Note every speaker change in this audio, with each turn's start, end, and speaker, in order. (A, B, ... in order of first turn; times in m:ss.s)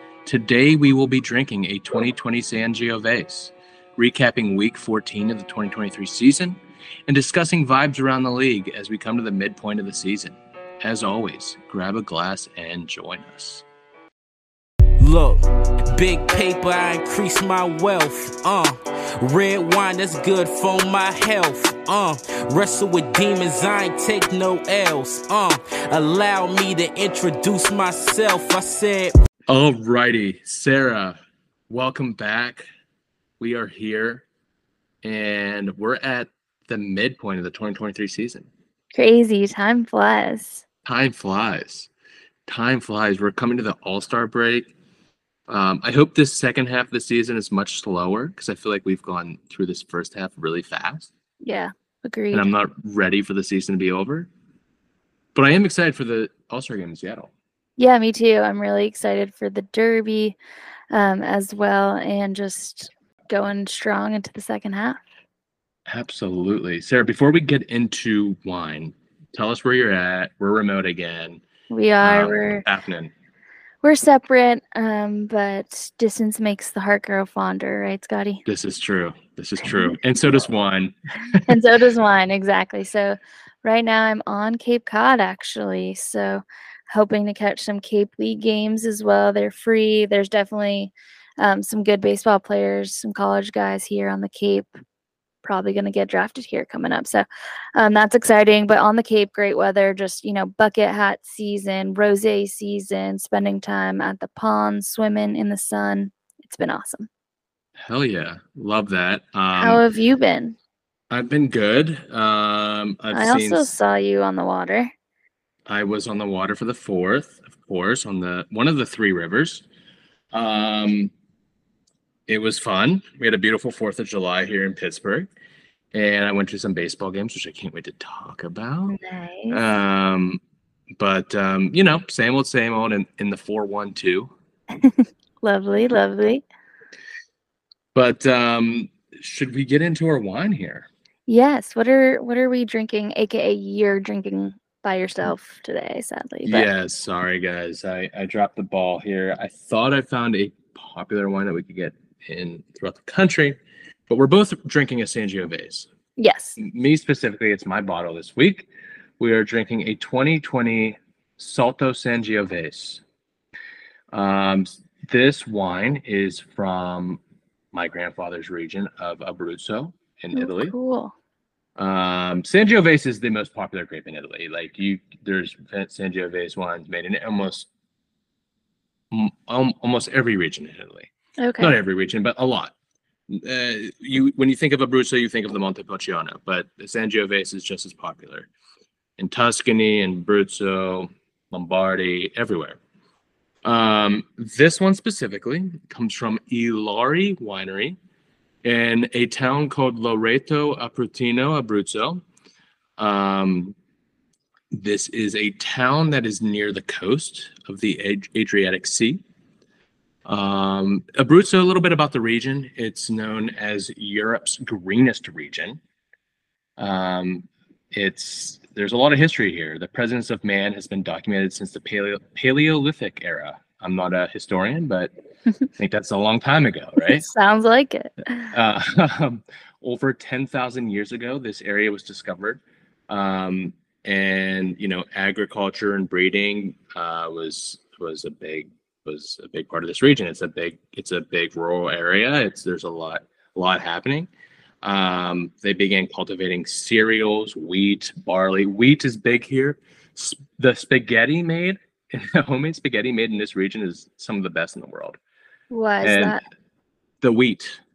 0:00.2-0:13.6 A
0:15.0-0:29.1 B
0:29.5-0:31.2 A
0:31.7-0:32.6 A
0:33.4-0:34.2 A
0:35.0-0:38.5 A
0:38.9-0:40.6 C
0:40.8-0:41.9 A
0:42.5-0:44.7 A
0:45.5-0:51.1 A
0:51.4-0:52.5 C
0:52.3-0:54.3 A
0:55.3-0:57.3 A
0:57.8-1:00.4 C
1:00.9-1:05.0 C
1:05.8-1:11.4 A
1:11.7-1:12.6 C
1:12.0-1:13.1 A
1:13.8-1:18.4 C
1:18.4-1:21.6 A
1:19.7-1:20.0 C
1:21.5-1:34.8 C
1:35.4-1:47.1 C
1:47.8-1:49.8 A
1:49.6-1:50.6 C
1:51.1-1:53.7 A
1:53.1-1:54.9 C
1:55.7-1:59.6 A
2:00.3-2:01.1 A
2:02.3-2:05.3 A
2:05.9-2:09.0 A
2:08.9-2:09.6 C
2:09.5-2:10.4 A
2:11.0-2:14.3 A
2:14.7-2:16.4 C
2:17.9-2:20.9 A
2:21.3-2:26.7 C
2:26.4-2:33.6 A
2:34.1-2:35.9 A
2:36.2-2:36.6 C
2:36.6-2:38.7 A
2:39.2-2:43.0 A
2:44.1-2:47.2 A
2:47.7-2:50.7 A
2:50.3-2:51.1 C
2:51.8-2:57.7 A
2:59.1-3:02.7 A
3:01.4-3:01.7 C
3:03.3-3:08.5 A
3:09.2-3:12.8 A
3:13.6-3:18.0 A
3:18.6-3:22.2 A
3:23.0-3:23.8 A
3:24.7-3:29.2 A
3:30.2-3:35.8 A
3:36.8-3:45.1 A
3:45.8-3:47.3 A
3:47.2-3:48.5 C
3:48.5-4:04.3 A
4:04.8-4:15.2 A
4:15.7-4:16.4 C
4:16.0-4:16.4 A
4:17.2-4:17.8 A